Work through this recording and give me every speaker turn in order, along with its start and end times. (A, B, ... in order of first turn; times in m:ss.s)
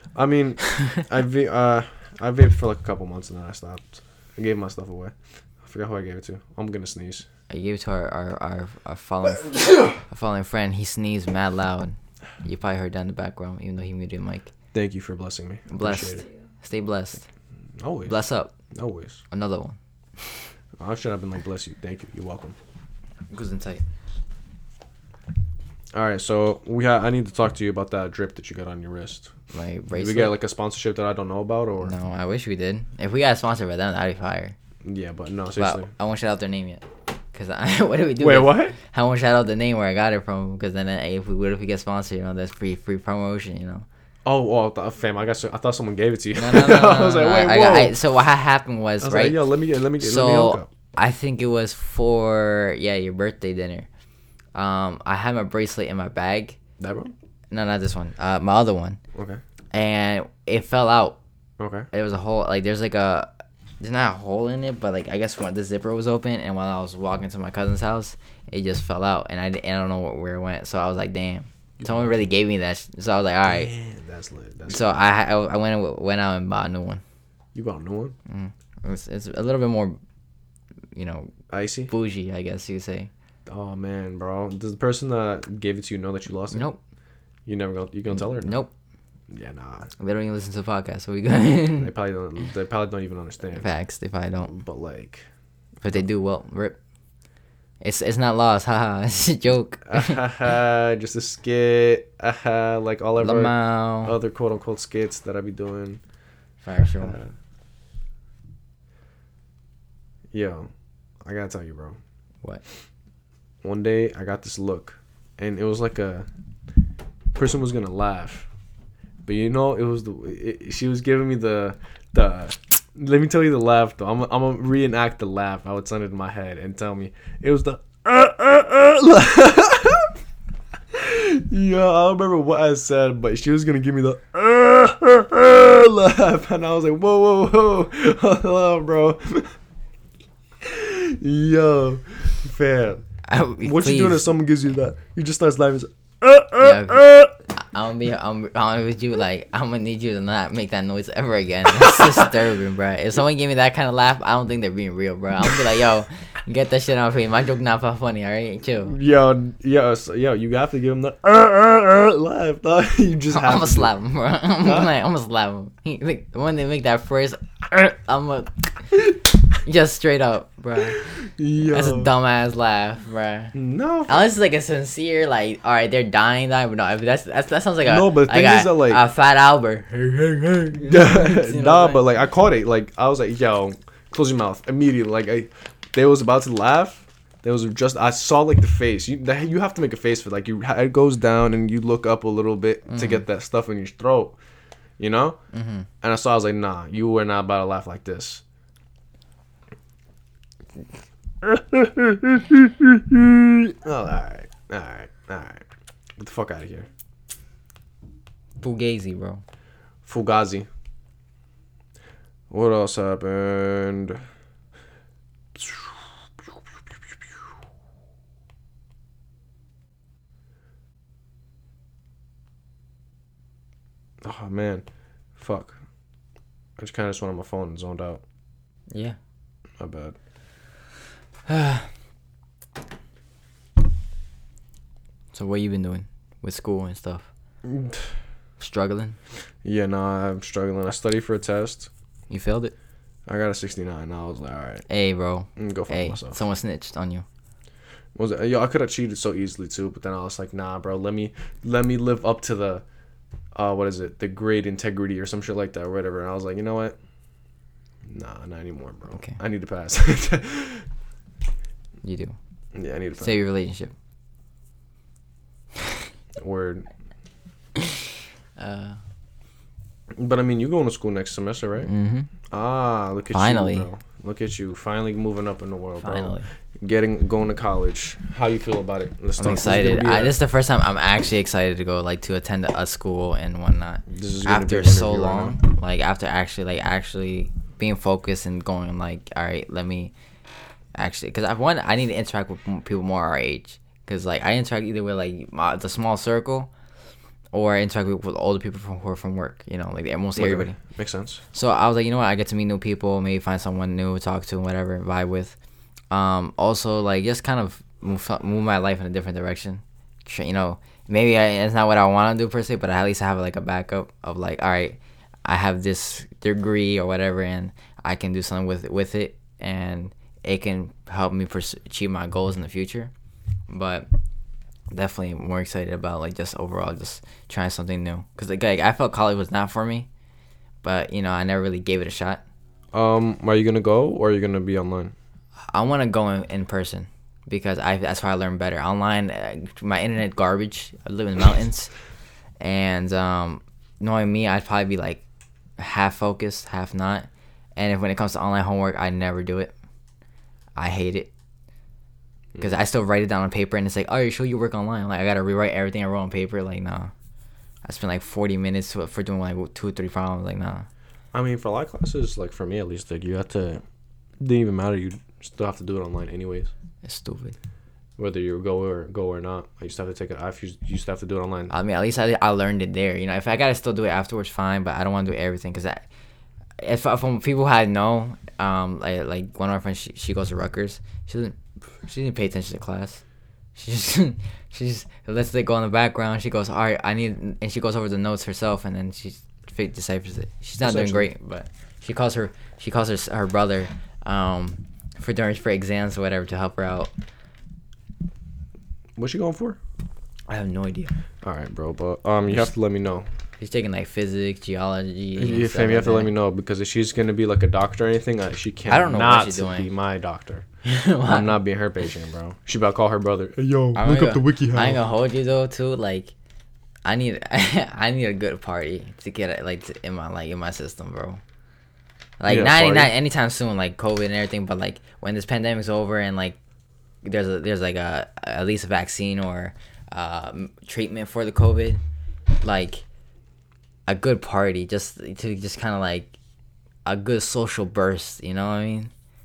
0:00.2-0:07.2 A
0:07.5-0:14.5 B
0:14.7-0:16.2 A
0:15.7-0:17.2 B
0:17.8-0:19.2 A
0:18.1-0:18.6 B
0:19.3-0:20.4 B
0:20.8-0:22.6 A
0:23.3-0:23.8 B
0:25.9-0:29.4 A
0:29.5-0:30.3 B
0:29.9-0:32.0 A
0:31.8-0:34.6 B
0:34.8-0:35.9 A
0:35.6-0:43.9 B
0:38.2-0:38.8 A
0:44.2-0:48.0 A
0:46.4-0:49.4 B
0:49.0-0:50.7 A
0:50.0-0:53.9 B
0:54.5-0:56.6 B
0:56.8-0:57.1 A
0:57.5-0:59.0 B
0:59.1-0:59.4 A
0:59.7-1:01.2 B
1:01.6-1:01.9 A
1:01.9-1:13.7 B
1:11.8-1:12.2 A
1:13.5-1:15.0 A
1:14.7-1:17.0 B
1:17.6-1:18.2 A
1:18.3-1:20.0 B
1:20.9-1:21.4 B
1:21.5-1:21.9 A
1:21.9-1:23.1 B
1:23.5-1:26.7 A
1:26.5-1:26.8 B
1:27.5-1:28.6 A
1:28.1-1:28.7 B
1:29.3-1:29.9 A
1:30.0-1:31.9 B
1:31.8-1:33.7 A
1:33.5-1:34.5 B
1:34.5-1:35.3 A
1:35.8-1:36.8 B
1:37.8-1:40.2 B
1:39.8-1:46.0 A
1:43.2-1:44.1 B
1:46.6-1:47.2 B
1:47.0-1:47.3 A
1:50.3-1:50.7 A
1:51.2-1:52.0 A
1:53.6-1:56.3 A
1:57.3-1:58.5 A
1:59.2-2:10.1 A
2:10.9-2:19.6 A
2:20.6-2:23.0 A
2:23.2-2:24.2 B
2:23.6-2:27.3 A
2:26.6-2:39.0 B
2:38.9-2:43.9 A
2:43.3-2:49.0 B
2:44.6-2:44.9 A
2:49.6-3:02.0 B
2:51.1-2:52.1 A
2:53.5-2:54.2 A
2:57.8-2:59.0 A
3:00.8-3:14.4 A
3:12.9-3:13.2 B
3:15.0-3:15.4 A
3:15.5-3:15.9 B
3:16.0-3:18.4 A
3:21.4-3:25.7 A
3:26.2-3:26.9 A
3:28.6-3:29.4 B
3:30.1-3:30.7 A
3:32.5-3:34.3 A
3:35.6-3:37.4 A
3:44.2-3:45.8 A
3:46.8-3:48.2 A
3:48.9-3:49.2 B
3:49.8-3:50.2 A
3:51.5-3:51.9 B
3:55.3-3:57.3 B
3:57.6-3:58.2 A
3:58.6-3:59.2 B
3:59.6-4:01.9 A
4:02.3-4:02.7 B
4:03.3-4:04.8 A
4:04.9-4:07.2 B
4:05.6-4:06.4 A
4:08.2-4:12.8 A
4:13.6-4:17.0 A
4:18.0-4:20.9 A
4:19.1-4:19.4 B
4:22.0-4:22.4 B
4:22.8-4:23.4 A
4:23.2-4:23.9 B
4:26.4-4:26.9 A
4:28.6-4:29.0 B
4:30.2-4:31.9 A
4:31.9-4:32.3 B
4:32.4-4:40.4 A
4:33.3-4:33.9 B
4:36.0-4:36.5 B
4:39.4-4:50.1 B
4:44.1-4:45.6 A
4:51.0-4:56.7 B
4:57.5-5:00.8 B
5:00.4-5:01.4 A
5:01.5-5:05.6 B
5:06.1-5:23.1 B
5:23.7-5:24.1 B
5:24.9-5:30.1 B
5:30.8-5:32.4 B
5:32.9-5:35.1 A
5:35.7-5:42.0 B
5:42.6-5:45.2 B
5:45.8-5:49.7 B
5:50.8-5:51.3 B
5:52.6-5:57.1 B
5:57.8-6:00.9 B
6:01.3-6:03.8 A
6:04.4-6:06.7 A
6:07.0-6:07.6 B
6:08.2-6:11.7 A
6:11.7-6:16.1 B
6:16.8-6:23.2 B
6:23.8-6:37.1 B
6:30.8-6:31.3 A
6:39.2-6:39.8 A
6:40.5-6:41.1 B
6:41.4-6:43.3 A
6:43.6-6:46.3 B
6:45.4-6:50.7 A
6:48.9-6:49.9 B
6:50.8-6:51.6 B
6:51.3-6:55.0 A
6:54.0-6:56.3 B
6:57.0-7:01.4 B
7:02.4-7:06.6 B
7:02.5-7:03.1 A
7:07.2-7:12.0 B
7:12.6-7:13.0 B
7:14.1-7:16.3 B
7:17.1-7:19.1 B